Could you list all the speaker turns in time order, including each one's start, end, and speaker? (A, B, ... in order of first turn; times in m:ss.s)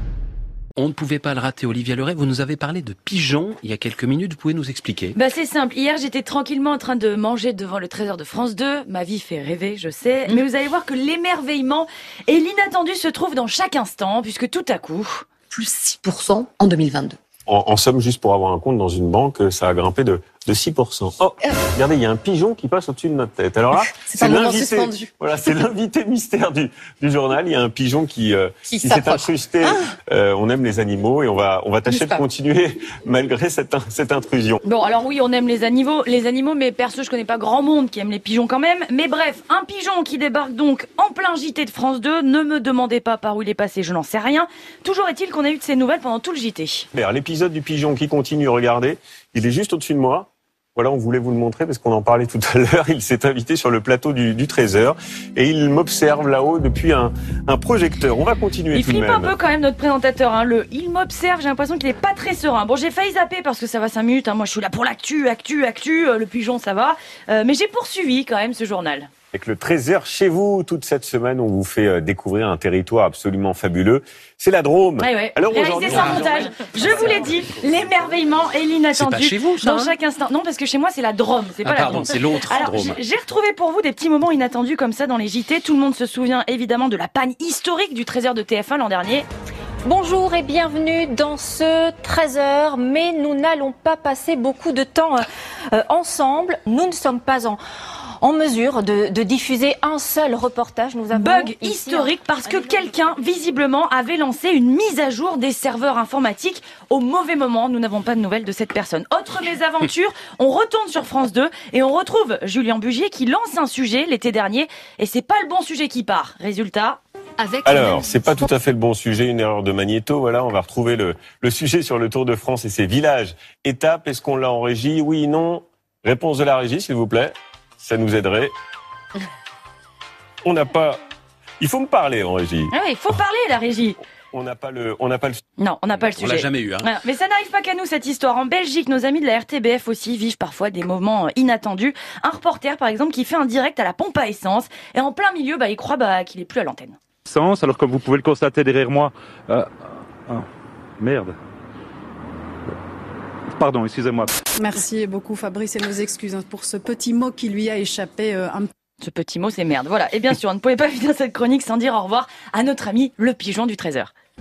0:00.8-0:05.2 A
0:05.1-0:15.3 B
0:15.5-0:17.2 C
0:17.5-0:34.6 D
0:23.9-0:25.1 C
0:28.7-0:29.9 C
0:31.9-0:32.2 C
0:34.6-0:46.9 B
0:46.9-0:59.3 D
0:58.7-1:09.1 B
1:09.3-1:17.2 D
1:15.0-1:29.2 B
1:15.9-1:16.3 A
1:16.9-1:17.2 A
1:18.9-1:19.9 A
1:21.6-1:23.0 A
1:29.8-1:37.6 E
1:38.2-1:42.8 E
1:41.1-1:57.0 B
1:57.6-2:08.5 D
2:10.4-2:11.0 D
2:11.6-2:12.7 D
2:12.7-2:14.0 B
2:14.3-2:15.4 D
2:15.6-2:27.0 B
2:16.2-2:16.9 A
2:27.3-2:29.7 F
2:31.0-2:31.3 F
2:33.6-2:34.3 F
2:34.6-2:38.7 G
2:39.0-2:44.1 B